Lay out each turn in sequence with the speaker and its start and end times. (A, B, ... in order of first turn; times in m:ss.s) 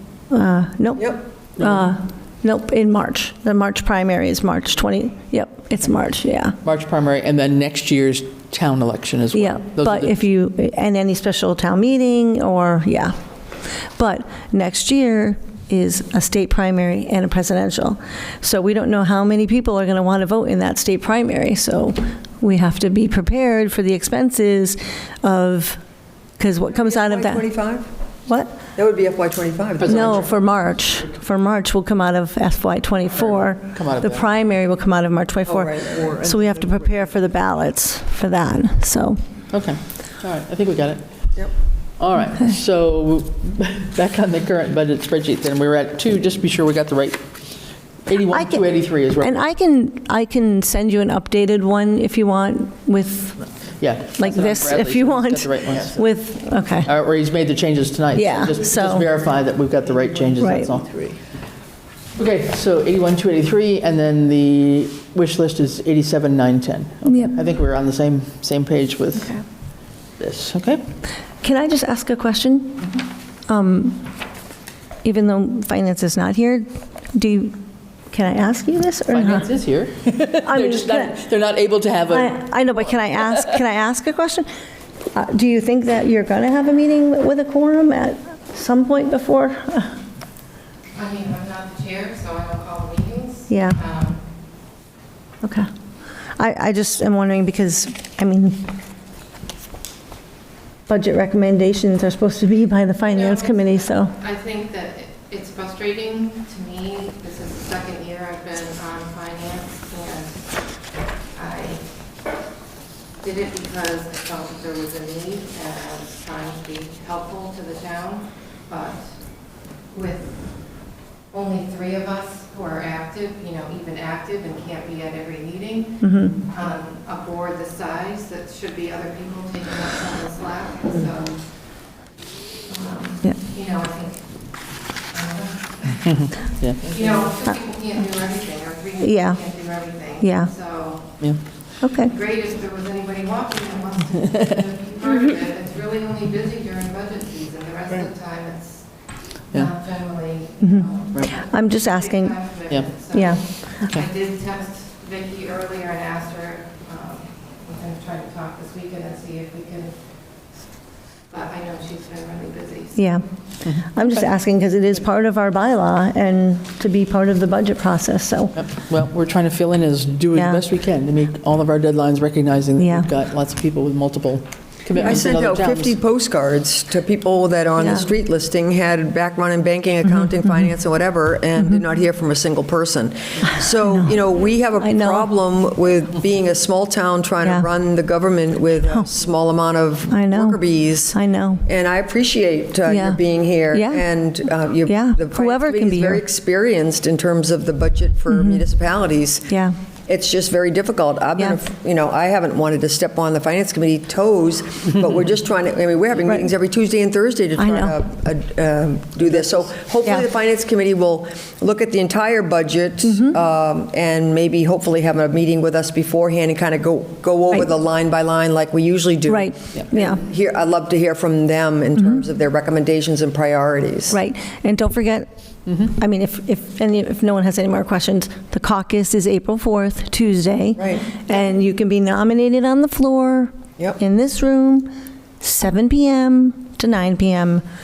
0:00.3-0:06.6 A
0:01.6-0:01.9 B
0:06.6-0:10.2 B
0:09.3-0:13.1 A
0:14.0-0:25.8 A
0:26.4-0:27.5 A
0:26.7-0:27.9 C
0:28.3-0:28.6 A
0:28.7-0:30.1 C
0:29.8-0:30.4 B
0:29.9-0:39.2 A
0:33.2-0:34.3 B
0:35.5-0:36.1 C
0:39.5-0:49.4 B
0:48.3-0:53.5 A
0:53.8-0:56.1 B
0:54.2-0:56.9 A
0:56.8-1:01.2 B
0:58.1-0:59.1 A
1:00.4-1:00.7 A
1:02.2-1:10.8 B
1:07.1-1:07.4 A
1:11.4-1:13.0 A
1:13.5-1:14.0 A
1:15.0-1:19.5 A
1:19.1-1:23.5 B
1:20.4-1:21.2 A
1:22.1-1:24.5 A
1:25.1-1:30.0 A
1:31.0-1:34.2 D
1:33.5-1:33.9 A
1:35.4-1:35.7 A
1:36.4-1:38.7 A
1:40.9-1:44.2 A
1:43.3-1:50.8 D
1:51.3-1:51.9 D
1:53.2-2:12.0 D
2:06.0-2:06.4 A
2:12.7-2:15.8 D
2:16.0-2:17.2 B
2:17.0-2:21.4 D
2:19.0-2:20.6 A
2:21.8-2:22.2 A
2:22.1-2:40.0 D
2:29.5-2:29.8 B
2:30.6-2:33.7 A
2:33.7-2:34.1 B
2:41.3-2:43.0 D
2:43.0-2:48.6 A
2:48.6-2:56.0 B
2:50.3-2:50.6 A
2:52.8-2:53.1 A
2:55.0-3:19.5 C
2:57.8-2:58.1 A
3:00.0-3:00.7 A
3:01.6-3:01.8 A
3:03.6-3:04.2 A
3:04.8-3:05.3 A
3:07.4-3:07.7 A
3:10.1-3:11.7 A
3:12.8-3:14.1 A
3:14.8-3:16.2 A
3:18.3-3:18.6 A
3:19.5-3:19.7 A
3:20.1-3:44.2 C
3:27.6-3:28.0 A
3:33.0-3:33.4 A
3:39.3-3:40.2 A
3:42.0-3:42.2 A
3:44.1-3:45.3 A
3:45.8-3:54.9 A
3:50.8-3:51.4 C
3:55.4-3:57.6 A